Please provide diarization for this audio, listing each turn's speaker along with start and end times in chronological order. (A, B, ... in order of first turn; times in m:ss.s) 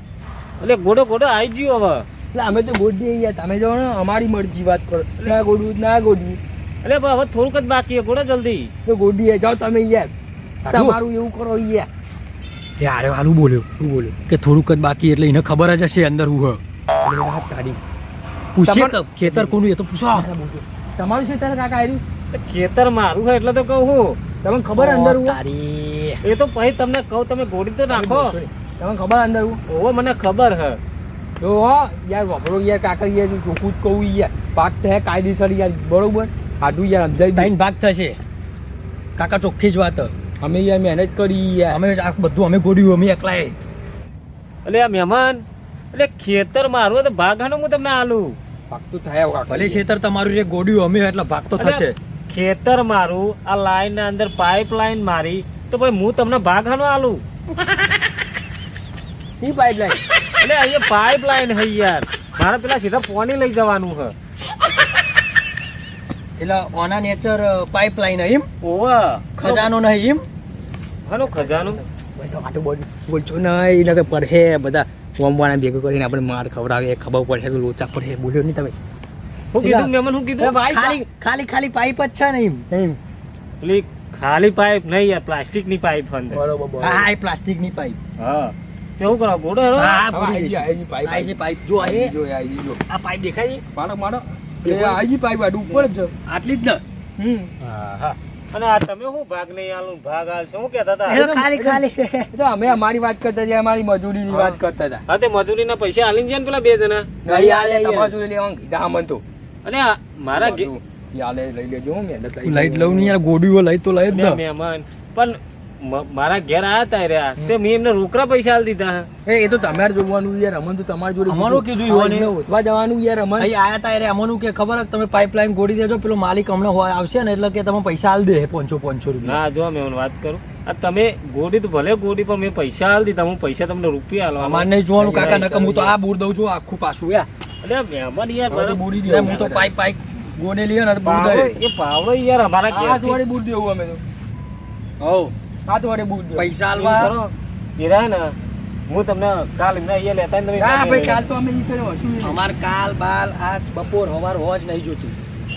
0:00.6-0:02.1 A
0:02.3-0:06.4 B
0:06.8-0:08.7 A
0:08.8-0:10.1 B
0:10.6-0:11.0 C
0:10.6-0:11.9 B
0:12.8-0:13.7 C
0:13.8-0:14.1 B
0:14.3-0:16.6 C
0:17.0-0:17.8 B
0:18.6-0:20.3 C
0:18.6-0:19.6 B
0:20.1-0:22.0 B
0:22.3-0:24.2 A
0:24.4-0:25.4 B
0:24.8-0:26.2 C
0:26.2-0:28.4 A
0:27.9-0:29.6 B
0:29.7-0:30.8 A
0:31.4-0:37.5 B
0:37.3-0:38.2 C
0:39.2-0:40.1 C
0:40.4-0:41.8 B
0:41.7-0:43.6 C
0:44.6-0:48.4 A
0:48.7-0:49.8 B
0:49.5-0:52.0 C
0:51.6-0:57.2 A
0:59.4-1:00.0 B
1:00.4-1:04.1 A
1:06.4-1:08.5 C
1:08.6-1:09.6 A
1:09.4-1:10.2 C
1:11.1-1:11.8 A
1:11.6-1:18.8 B
1:19.5-1:20.6 A
1:19.6-1:22.7 C
1:20.6-1:21.0 B
1:23.6-1:26.4 A
1:26.3-1:27.1 B
1:26.8-1:28.0 C
1:28.2-1:30.1 A
1:29.8-1:32.1 C
1:30.1-1:32.8 B
1:32.9-1:33.6 C
1:33.8-1:36.1 B
1:34.6-1:35.0 C
1:36.2-1:36.8 C
1:37.2-1:37.5 B
1:37.6-1:41.2 A
1:41.1-1:42.3 C
1:41.1-1:41.8 B
1:42.3-1:45.0 B
1:44.3-1:47.1 A
1:47.2-1:49.2 B
1:47.3-1:48.1 C
1:49.6-1:50.7 A
1:50.3-1:53.1 B
1:52.4-1:54.4 C
1:54.1-1:59.1 A
1:59.2-2:03.5 B
2:01.2-2:02.3 C
2:03.4-2:09.4 C
2:09.2-2:15.6 A
2:14.4-2:17.3 C
2:15.0-2:15.9 B
2:17.6-2:19.7 A
2:18.5-2:19.6 B
2:19.0-2:21.6 C
2:21.0-2:23.2 A
2:22.7-2:24.0 B
2:25.0-2:25.3 C
2:25.7-2:26.5 B
2:26.4-2:27.1 C
2:26.8-2:28.3 A
2:28.9-2:31.3 A
2:30.6-2:32.5 B
2:32.2-2:35.2 C